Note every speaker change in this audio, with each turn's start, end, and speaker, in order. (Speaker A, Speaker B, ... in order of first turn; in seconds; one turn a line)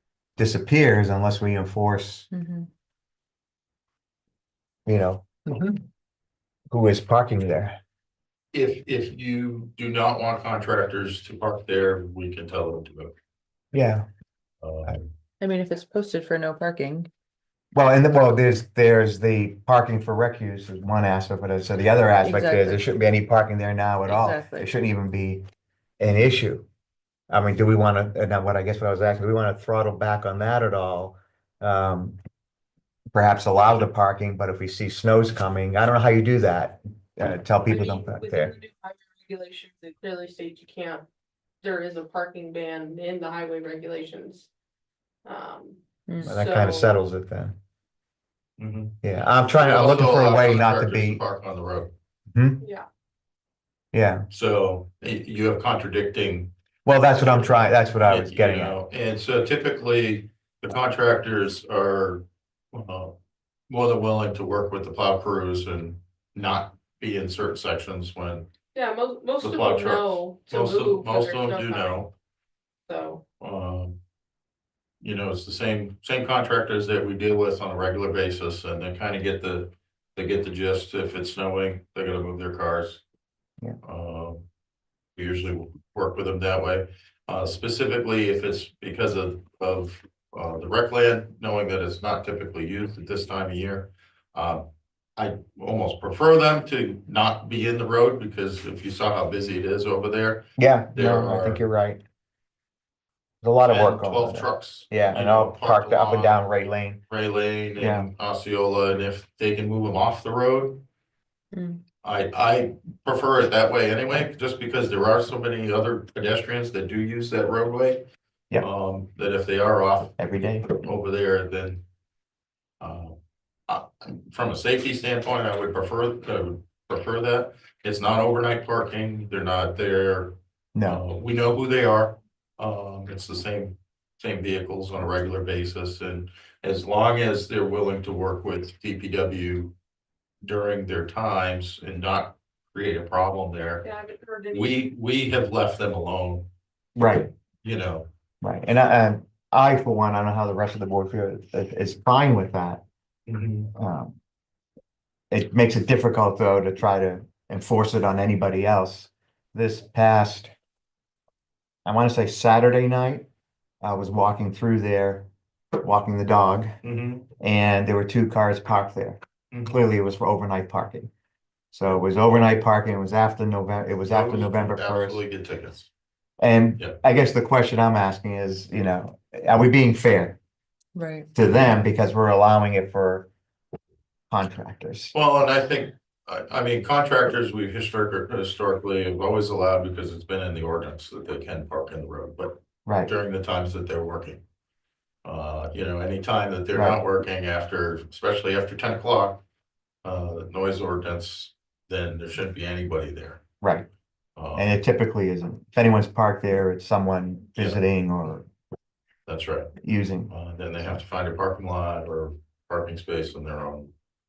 Speaker A: 0.4-2.3
Speaker B: 2.3-2.7
Speaker A: 4.9-5.3
Speaker B: 5.5-5.8
Speaker A: 6.7-7.8
Speaker C: 8.5-13.1
Speaker A: 13.7-14.1
Speaker C: 14.6-15.0
Speaker B: 15.4-17.1
Speaker A: 17.7-25.4
Speaker B: 22.2-22.9
Speaker B: 24.1-24.7
Speaker A: 26.0-26.6
Speaker A: 27.3-32.2
Speaker A: 33.1-38.5
Speaker D: 37.7-41.1
Speaker D: 41.6-44.5
Speaker D: 45.2-47.0
Speaker B: 46.1-46.4
Speaker A: 46.2-47.6
Speaker C: 48.6-49.0
Speaker A: 49.0-51.2
Speaker C: 49.6-51.9
Speaker A: 52.3-52.6
Speaker D: 52.6-52.9
Speaker A: 53.9-54.2
Speaker C: 54.3-56.5
Speaker A: 56.9-58.8
Speaker C: 57.2-63.1
Speaker C: 63.7-68.5
Speaker D: 68.7-72.0
Speaker C: 69.4-72.1
Speaker D: 72.9-73.2
Speaker C: 73.4-74.0
Speaker C: 75.0-83.0
Speaker C: 83.8-84.5
Speaker C: 85.2-101.6
Speaker A: 100.6-102.0
Speaker A: 103.4-107.0
Speaker C: 103.7-106.5
Speaker C: 107.1-110.8
Speaker A: 107.8-108.1
Speaker B: 111.5-111.8
Speaker C: 112.0-118.0
Speaker C: 118.6-120.2
Speaker A: 120.2-120.8
Speaker C: 120.7-121.8
Speaker C: 122.8-123.2
Speaker C: 123.7-139.7
Speaker A: 130.8-131.0
Speaker C: 140.4-143.8
Speaker D: 143.8-144.8
Speaker C: 144.5-146.5
Speaker A: 146.9-147.3
Speaker C: 147.6-148.1
Speaker A: 148.4-152.8
Speaker C: 153.3-153.7
Speaker A: 153.8-154.2
Speaker A: 155.3-160.5
Speaker A: 161.8-163.3
Speaker A: 163.8-165.3
Speaker A: 165.8-166.7
Speaker C: 166.8-167.3
Speaker A: 167.4-171.1
Speaker C: 169.5-169.8
Speaker A: 171.7-175.2
Speaker C: 174.1-175.9
Speaker A: 176.4-180.4
Speaker B: 181.0-181.3
Speaker A: 181.3-183.3
Speaker A: 184.3-185.1
Speaker C: 185.1-194.4
Speaker A: 192.8-193.1
Speaker C: 195.2-199.4
Speaker A: 196.7-197.0
Speaker C: 200.0-203.4
Speaker A: 203.6-203.9
Speaker C: 204.4-204.7
Speaker A: 204.6-208.5
Speaker C: 209.3-209.7
Speaker A: 209.8-210.3
Speaker C: 210.3-213.9